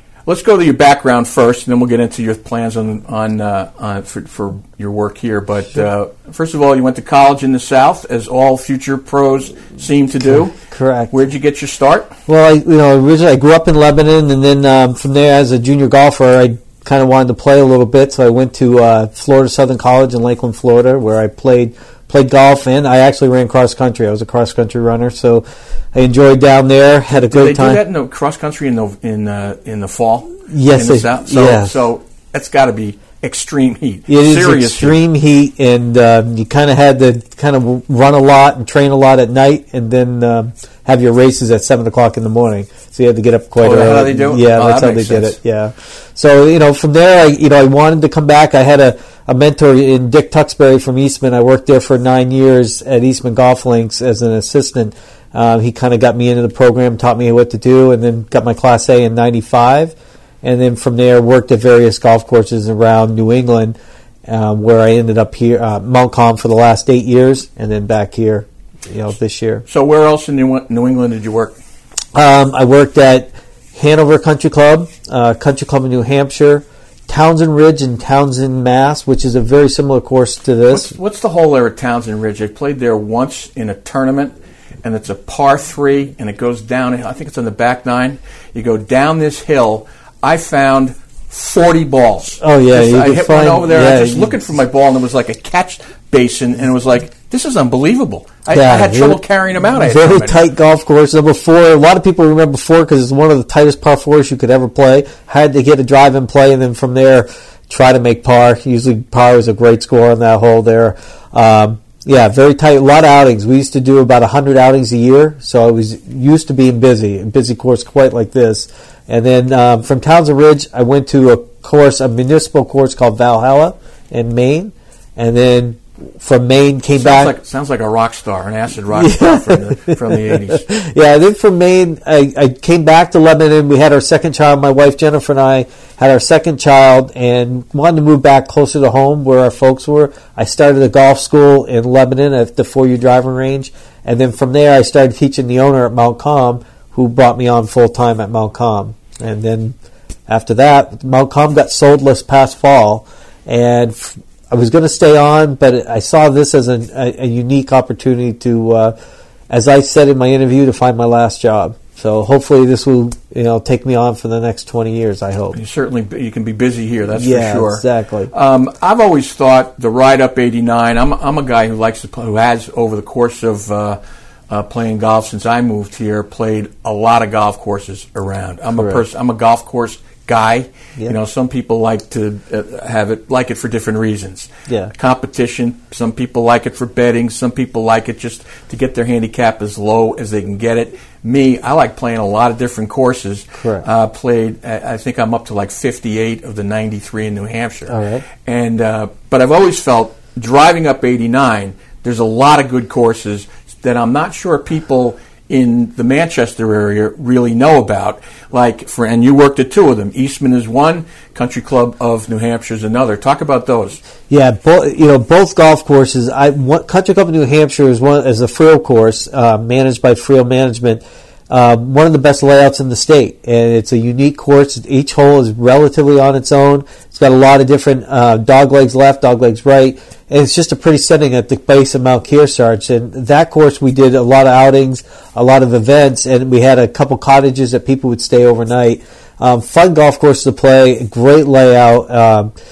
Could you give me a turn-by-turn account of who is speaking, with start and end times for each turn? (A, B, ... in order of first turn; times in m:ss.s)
0:00.2-0:10.6 A
0:10.3-0:11.1 B
0:11.1-0:12.1 A
0:12.3-0:27.8 B
0:27.1-0:35.0 A
0:30.5-0:31.7 B
0:34.1-1:09.6 B
0:43.6-0:45.4 A
1:09.7-1:11.6 A
1:12.1-1:20.9 B
1:20.7-1:40.4 A
1:32.4-1:34.3 B
1:38.5-2:07.3 B
2:07.0-2:10.7 A
2:08.9-2:29.7 B
2:30.3-2:38.9 B
2:39.5-2:45.6 B
2:45.5-3:34.0 A
2:47.1-2:48.3 B
2:58.7-2:59.0 B
3:13.6-3:13.8 B
3:17.9-3:18.2 B
3:34.3-4:02.5 B